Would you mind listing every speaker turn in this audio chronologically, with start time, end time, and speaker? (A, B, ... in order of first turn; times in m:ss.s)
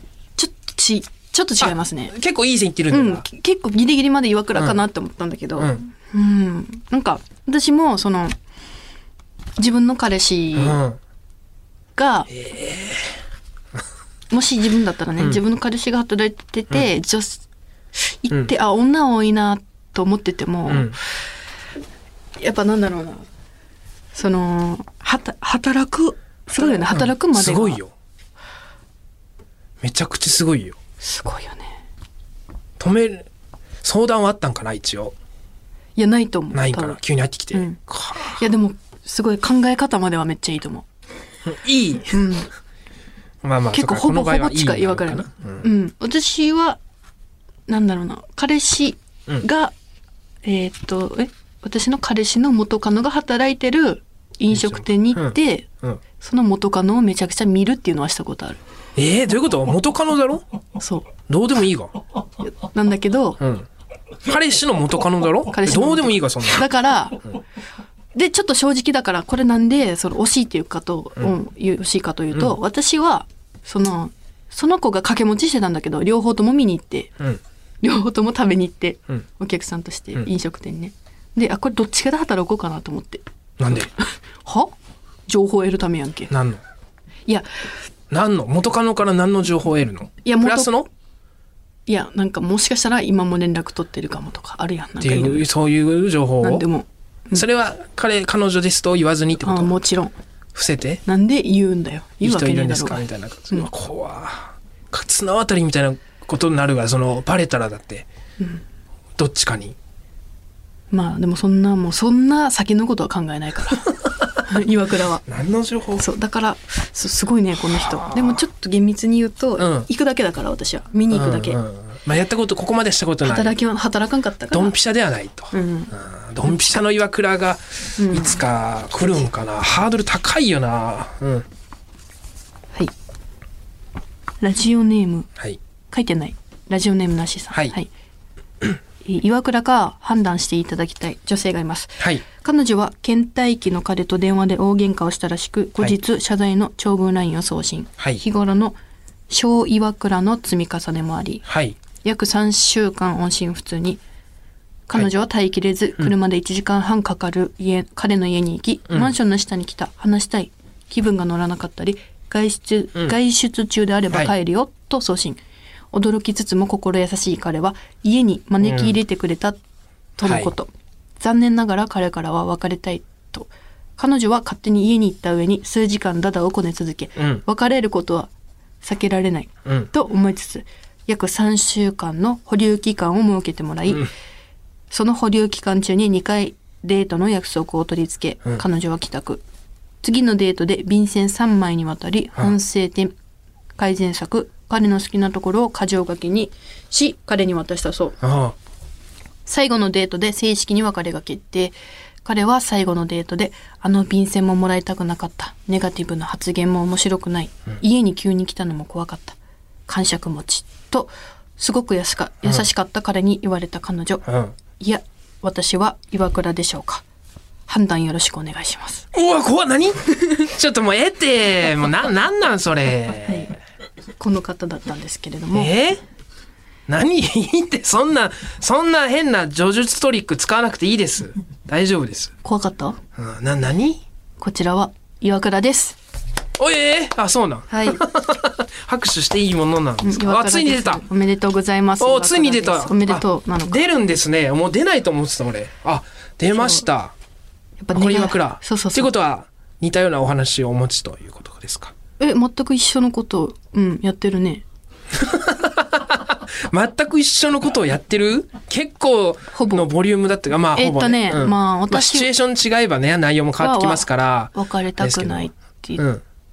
0:00.4-0:02.1 A
0:01.6-0:03.2 B
0:02.9-0:08.4 A
0:05.6-0:05.8 B
0:09.6-0:10.8 A
0:10.6-0:11.0 B
0:12.0-0:12.3 A
0:12.3-0:13.2 B
0:14.3-0:17.4 A
0:18.0-0:21.0 A
0:20.7-0:21.0 B
0:22.4-0:23.3 A
0:24.1-0:27.8 A
0:26.6-0:27.9 B
0:29.8-0:30.8 B
0:31.0-0:31.8 A
0:32.8-0:33.3 B
0:33.8-0:35.2 B
0:36.0-0:37.0 A
0:36.5-0:38.4 B
0:37.5-0:40.9 A
0:41.5-0:42.2 B
0:42.1-0:42.5 A
0:43.4-0:45.7 B
0:43.7-0:46.8 A
0:47.7-0:49.7 A
0:50.4-0:58.6 A
0:54.5-0:56.0 B
0:59.0-1:00.4 B
1:00.8-1:01.1 A
1:01.3-1:02.0 B
1:02.4-1:03.4 A
1:03.4-1:03.7 B
1:04.2-1:06.7 B
1:05.5-1:07.3 A
1:08.1-1:17.2 A
1:17.8-1:23.2 A
1:23.6-1:23.9 B
1:24.0-1:24.8 A
1:25.3-1:26.3 A
1:26.3-1:26.6 B
1:27.3-1:27.8 A
1:28.1-1:30.9 B
1:30.2-1:30.8 A
1:31.9-1:35.5 A
1:35.0-1:36.7 B
1:36.4-1:37.4 A
1:37.3-1:39.8 B
1:39.4-1:40.2 A
1:40.6-1:41.0 B
1:41.1-1:43.7 A
1:42.2-1:48.1 B
1:49.2-1:49.8 B
1:50.9-1:53.9 A
1:54.4-1:55.2 A
1:55.3-1:56.1 B
1:56.0-2:01.6 A
1:57.7-1:58.4 B
1:59.6-1:59.9 B
2:01.1-2:03.6 B
2:03.2-2:04.8 A
2:04.5-2:11.5 B
2:05.5-2:05.9 A
2:06.5-2:06.8 A
2:08.0-2:08.4 A
2:14.4-2:15.3 A
2:15.9-2:17.9 A
2:17.5-2:17.8 B
2:19.0-2:28.8 A
2:22.0-2:22.2 B
2:29.3-2:31.5 A
2:31.5-2:31.8 B
2:32.0-2:34.0 A
2:34.9-2:45.4 A
2:45.9-2:49.6 A
2:48.6-2:49.0 B
2:50.2-2:58.3 A
2:50.2-2:50.5 B
2:57.2-2:57.4 B
2:58.8-3:04.1 A
3:04.9-3:09.4 A
3:10.0-3:13.1 A
3:13.8-3:18.2 A
3:18.2-3:18.6 B
3:19.5-3:34.2 A
3:34.3-3:34.6 B
3:34.8-3:37.0 A
3:37.7-3:39.1 A
3:39.1-3:43.5 B
3:44.2-3:45.7 A
3:45.5-3:46.0 B
3:46.9-3:52.4 B
3:52.4-3:53.0 A
3:53.2-3:54.0 B
3:54.4-3:56.0 A
3:56.6-4:01.0 B
3:57.7-3:58.0 A
4:00.0-4:03.8 A
4:02.0-4:07.2 B
4:07.8-4:09.1 A
4:07.9-4:12.0 B
4:12.2-4:14.6 A
4:15.2-4:26.2 B
4:19.6-4:19.9 A
4:20.7-4:22.3 A
4:23.6-4:26.0 A